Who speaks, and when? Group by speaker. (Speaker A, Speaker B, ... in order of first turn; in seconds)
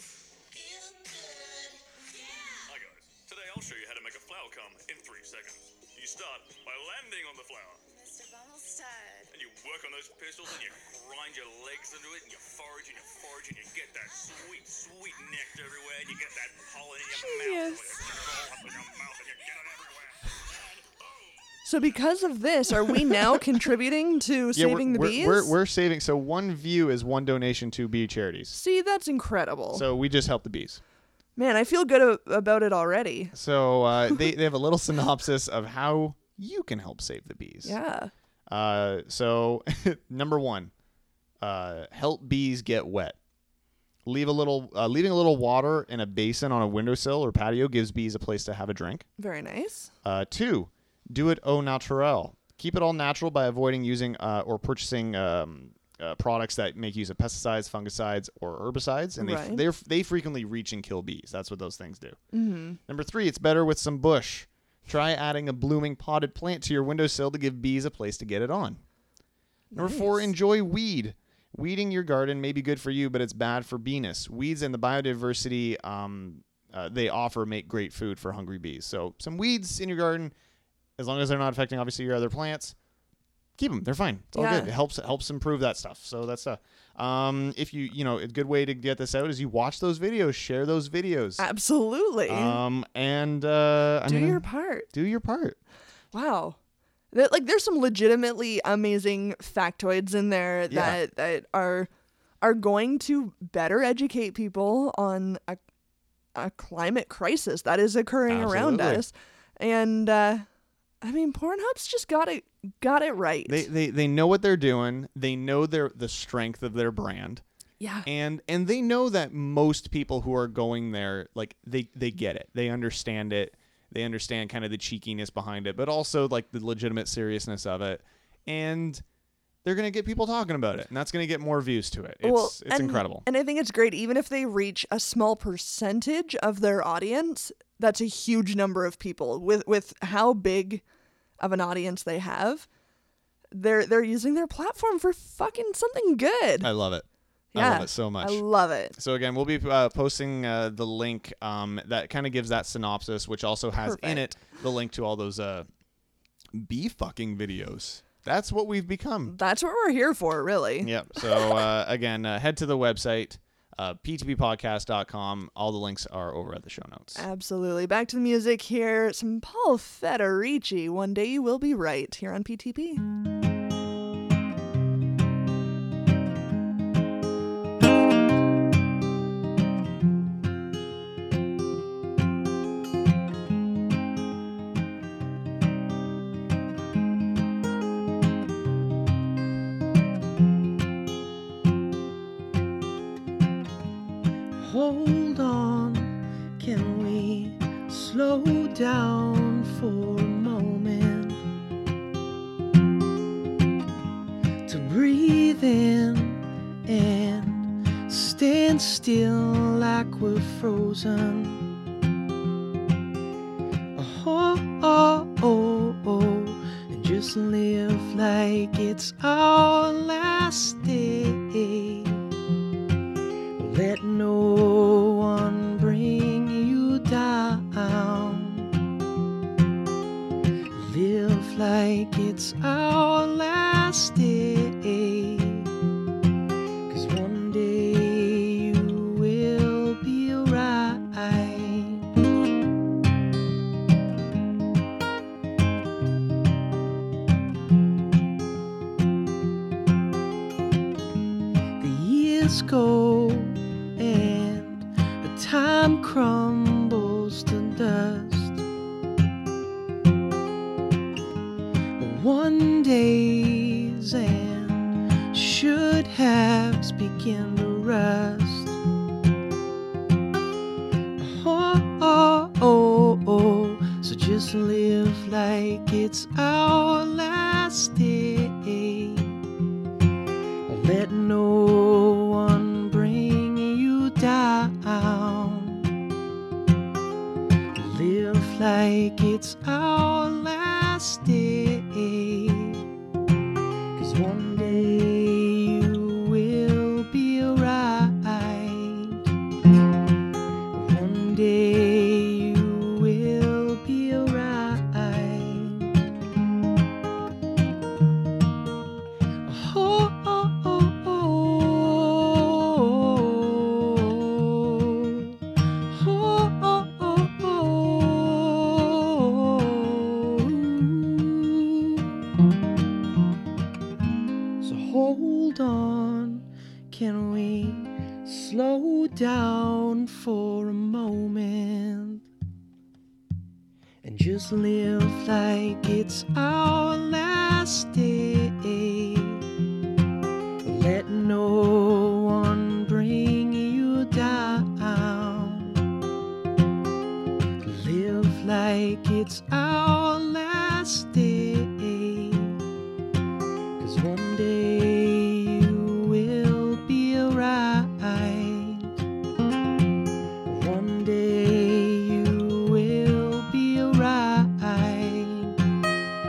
Speaker A: 2.7-7.8, 9.3-21.3
Speaker B: 17.1-18.0, 21.6-25.5, 28.5-29.8, 31.4-33.3, 37.6-38.1, 49.2-49.9, 59.2-59.6, 62.3-62.8, 69.7-70.3, 84.3-84.7, 91.4-92.6, 94.1-94.9, 96.1-96.6, 97.1-101.9, 102.4-105.6, 106.3-110.4, 111.0-113.7, 117.8-118.1, 132.2-140.8, 141.4-142.7, 143.5-146.7, 147.5-148.9, 153.8-154.3, 159.3-161.6, 167.2-173.0
Speaker C: 24.5-28.6, 29.7-30.8, 33.3-37.7, 38.5-40.7, 41.4-43.1, 44.0-49.0, 50.0-62.2, 62.9-68.8, 69.8-80.3, 81.0-82.7, 83.6-91.4, 92.3-95.6, 100.7-101.0, 108.3-109.0, 113.5-117.4, 118.0-129.0, 129.6-133.2, 146.6-148.4, 148.9-155.7, 156.5-159.3, 160.8-167.2
Speaker D: 194.5-201.4, 204.7-211.7, 213.9-222.2, 223.6-228.7, 230.7-235.7, 236.9-242.1, 251.8-258.6, 262.0-268.8, 271.2-279.4, 280.7-285.9, 287.7-292.8, 293.9-299.2, 300.7-305.9, 309.4-315.4, 315.9-322.2, 324.6-332.3, 334.0-339.4, 340.6-345.8, 347.6-352.6, 353.8-358.9, 360.4-365.6